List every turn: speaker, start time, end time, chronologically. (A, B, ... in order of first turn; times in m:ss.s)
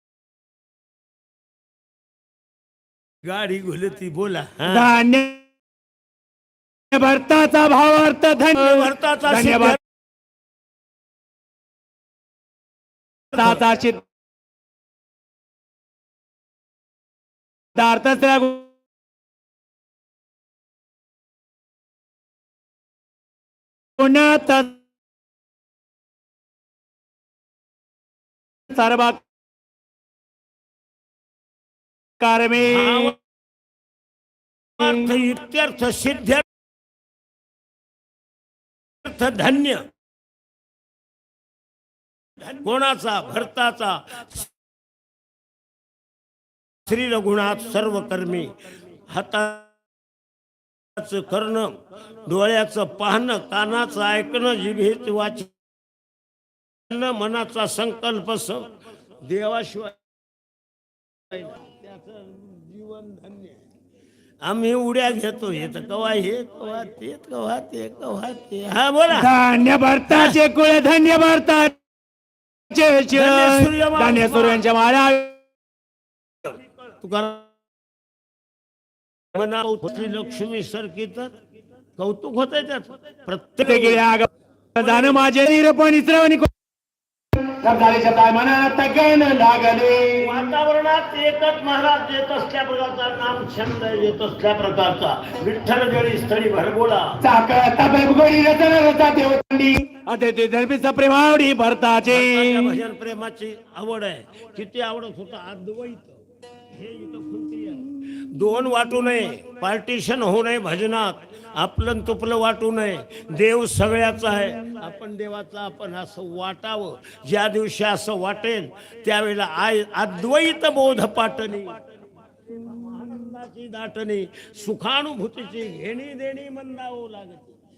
0:03.2-0:04.9 A
0:04.7-0:05.4 B
0:06.9-0:09.8 B
0:08.6-0:09.8 A
0:13.3-0:14.0 B
0:17.8-0:18.7 B
0:24.0-0:24.8 B
0:28.7-0:29.2 B
0:32.2-0:33.1 B
0:32.7-0:33.1 A
0:34.8-0:36.4 A
0:39.0-0:39.8 A
0:42.6-0:44.5 A
0:46.9-0:48.5 A
0:49.1-0:49.7 A
0:51.0-0:55.5 A
0:56.9-1:00.0 A
1:01.3-1:03.6 A
1:04.4-1:09.3 A
1:09.1-1:11.8 B
1:10.1-1:10.4 A
1:12.7-1:15.4 B
1:13.1-1:14.6 A
1:16.5-1:17.5 A
1:19.3-1:21.4 A
1:22.0-1:24.0 A
1:23.6-1:26.5 B
1:24.8-1:25.2 A
1:27.6-1:30.5 B
1:30.2-1:37.2 A
1:37.2-1:42.8 B
1:42.1-2:07.6 A